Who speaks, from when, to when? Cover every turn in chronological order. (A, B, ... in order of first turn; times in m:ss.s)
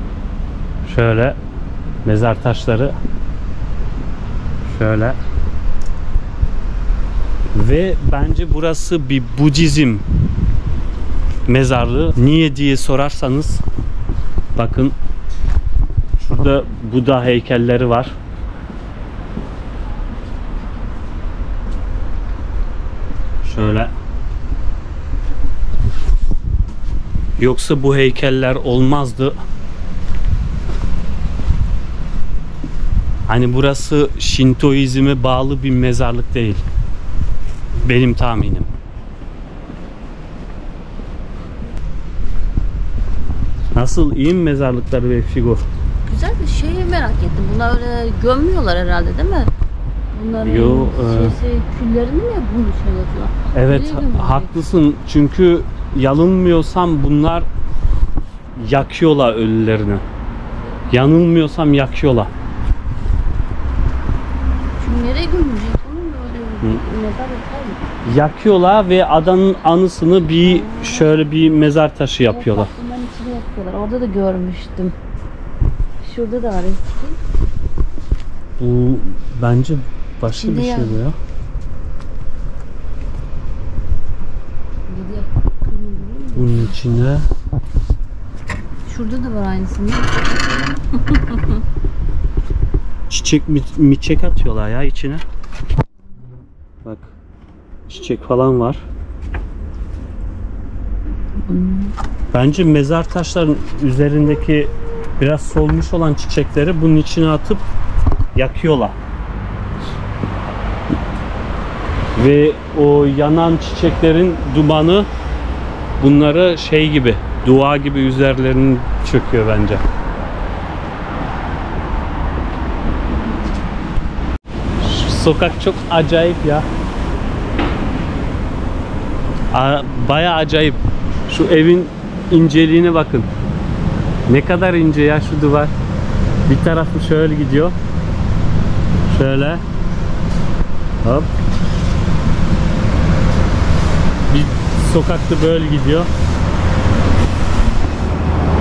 0:00.8-0:01.4 A
0:02.0-0:03.0 A
0:04.6-0:05.2 A
0:07.5-0:10.0 A
0:11.5-0:13.6 A
0:14.6-0:14.9 A
0:16.2-0:18.1 A
0:23.4-0:23.9 A
0:27.4-0:29.4 A
0:33.3-0:36.6 A
0:37.8-0:38.7 A
0:43.7-0:45.6 A
0:46.0-0:49.5 B
0:50.1-0:54.5 B
0:50.4-0:51.3 A
0:53.5-0:57.5 A
0:58.6-1:00.0 A
1:00.9-1:02.3 A
1:04.8-1:07.8 B
1:08.0-1:12.7 A
1:10.4-1:11.3 B
1:12.3-1:14.9 B
1:16.0-1:17.2 B
1:18.6-1:21.2 A
1:20.3-1:21.0 B
1:24.9-1:26.8 B
1:26.4-1:27.3 A
1:28.8-1:30.1 B
1:33.1-1:35.2 A
1:37.9-1:38.8 A
1:41.4-1:41.9 B
1:42.3-1:47.6 A
1:48.3-1:49.0 A
1:52.2-1:55.1 A
1:56.0-1:59.8 A
2:04.8-2:06.6 A
2:09.5-2:13.3 A
2:14.3-2:15.7 A
2:16.5-2:17.7 A
2:19.1-2:19.6 A
2:21.0-2:21.3 A
2:24.3-2:26.1 A